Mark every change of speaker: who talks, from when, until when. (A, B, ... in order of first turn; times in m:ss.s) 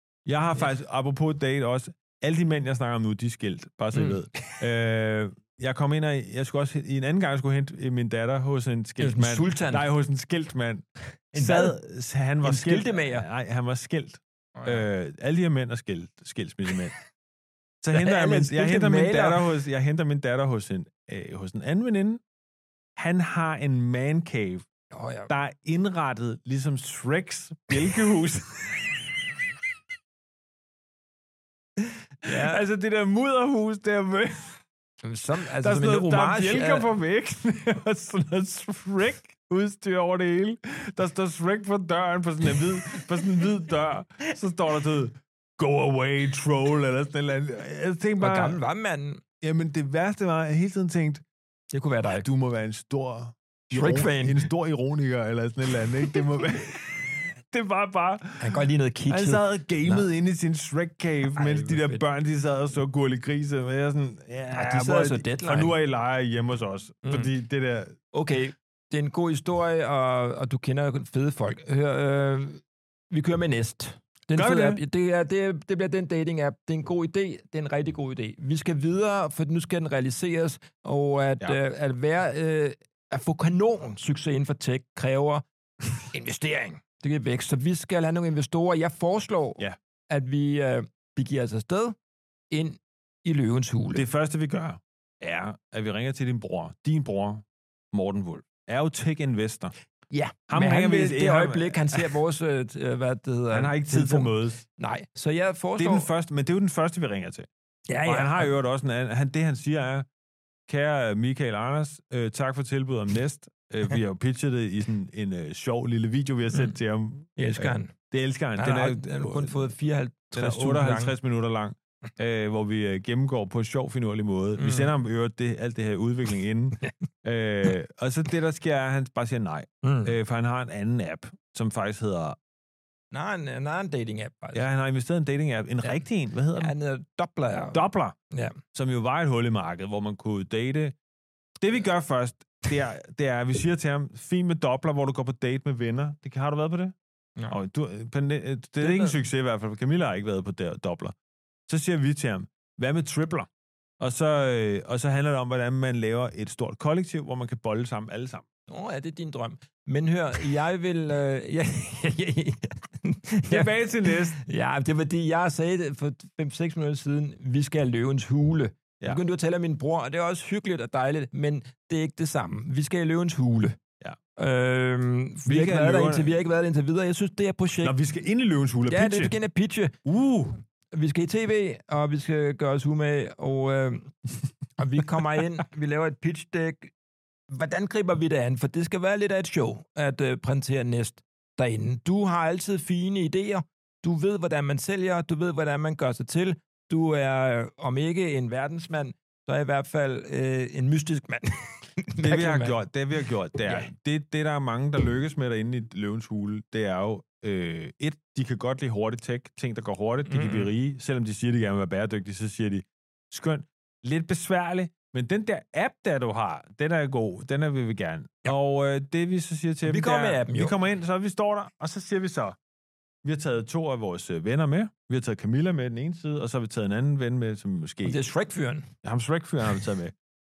0:00.2-0:16.9 A
0:03.9-0:04.6 B
0:09.0-0:09.9 B
0:11.3-0:11.8 B
0:12.4-0:13.2 B
0:14.5-0:14.9 B
0:17.8-0:22.2 A
0:17.9-0:19.4 B
0:23.0-0:24.7 A
0:24.9-0:25.3 B
0:25.3-0:29.1 A
0:32.2-0:32.6 B
0:32.2-0:34.6 A
0:35.0-0:36.9 B
0:35.6-0:48.6 A
0:48.2-0:49.2 B
0:49.4-0:51.2 A
0:51.7-0:52.3 B
0:52.1-1:08.0 A
0:53.7-0:54.5 B
0:58.4-1:00.1 B
1:01.3-1:02.0 B
1:04.5-1:05.7 B
1:07.0-1:07.3 B
1:08.1-1:25.4 B
1:14.3-1:14.8 A
1:26.0-1:32.0 B
1:32.5-1:34.0 B
1:33.9-1:39.7 A
1:40.1-1:46.1 B
1:40.5-1:42.2 A
1:43.5-1:44.6 A
1:45.8-1:47.5 A
1:47.9-1:48.5 B
1:48.0-1:50.1 A
1:50.7-1:59.7 A
1:57.4-1:57.9 B
1:58.6-2:01.1 B
2:00.3-2:12.4 A
2:04.6-2:04.9 B
2:09.8-2:10.1 B
2:13.1-2:14.6 B
2:14.5-2:16.7 A
2:16.6-2:18.6 B
2:17.7-2:18.2 A
2:18.7-2:21.0 A
2:21.6-2:26.9 A
2:27.5-2:31.1 A
2:28.8-2:29.2 B
2:31.7-2:38.5 A
2:38.7-2:53.8 B
2:43.5-2:44.4 A
2:54.4-2:57.9 B
2:55.4-2:56.3 A
2:57.8-2:59.3 A
2:58.9-3:00.0 B
3:00.0-3:00.6 A
3:00.9-3:04.2 B
3:04.8-3:06.9 B
3:07.5-3:22.8 B
3:22.2-3:42.6 A
3:23.6-3:23.9 B
3:30.2-3:30.7 B
3:39.8-3:40.7 B
3:43.2-3:48.2 A
3:48.0-3:48.9 B
3:49.0-3:50.1 A